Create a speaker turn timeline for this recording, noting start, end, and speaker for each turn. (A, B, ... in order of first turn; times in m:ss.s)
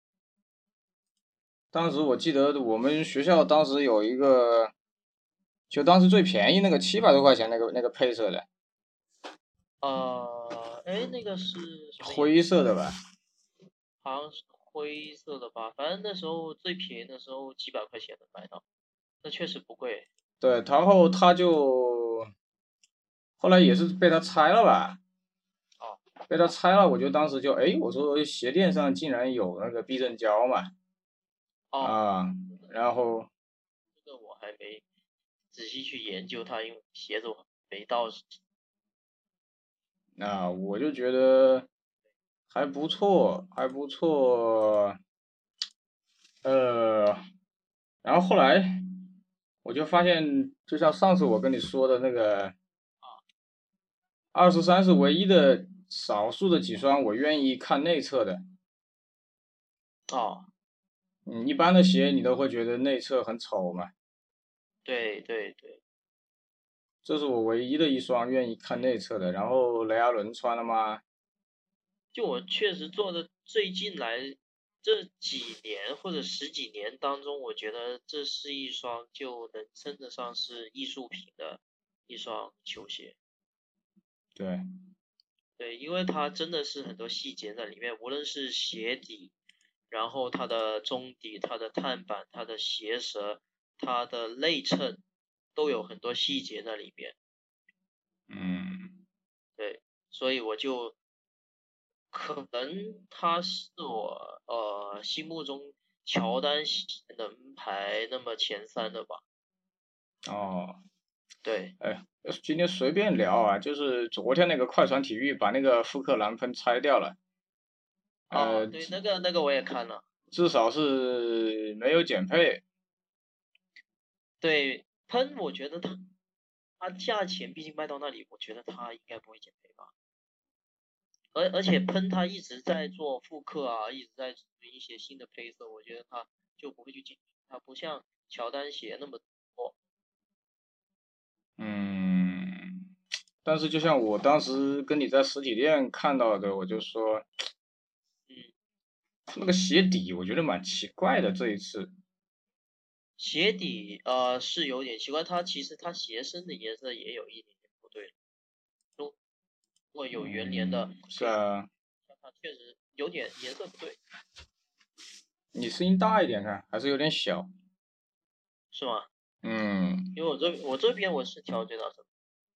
0:01.7-0:04.7 A
0:05.7-0:08.5 A
0:09.8-0:12.3 B
0:12.0-0:12.9 A
0:14.0-0:18.6 B
0:19.2-0:20.1 B
0:20.4-0:22.3 A
0:23.4-0:25.0 A
0:26.3-0:30.7 A
0:31.7-0:32.0 B
0:31.8-0:33.3 A
0:34.0-0:34.8 B
0:35.5-0:38.3 B
0:40.2-0:41.7 A
0:42.5-0:45.0 A
0:46.4-0:47.2 A
0:48.0-0:48.8 A
0:49.6-0:52.5 A
0:54.3-0:58.4 A
1:00.1-1:00.5 B
1:01.2-1:03.9 A
1:04.8-1:05.8 B
1:07.0-1:11.0 A
1:12.1-1:23.2 B
1:24.4-1:24.6 A
1:25.6-1:29.3 B
1:29.9-1:35.0 B
1:35.5-1:37.1 B
1:38.3-1:39.0 A
1:39.6-1:41.0 B
1:42.1-1:49.2 B
1:50.2-1:50.8 A
1:51.4-1:51.7 B
1:51.8-1:57.2 A
1:58.3-1:58.9 A
1:58.3-2:00.0 B
2:00.3-2:02.6 A
2:04.4-2:06.0 B
2:06.8-2:09.9 B
2:11.3-2:19.7 B
2:21.6-2:22.8 A
2:23.4-2:27.2 A
2:29.3-2:31.9 A
2:33.2-2:38.1 B
2:39.9-2:41.4 B
2:40.2-2:41.7 A
2:42.1-2:44.0 B
2:45.5-2:47.5 A
2:48.7-2:49.1 B
2:49.4-2:50.2 A
2:50.2-2:52.0 B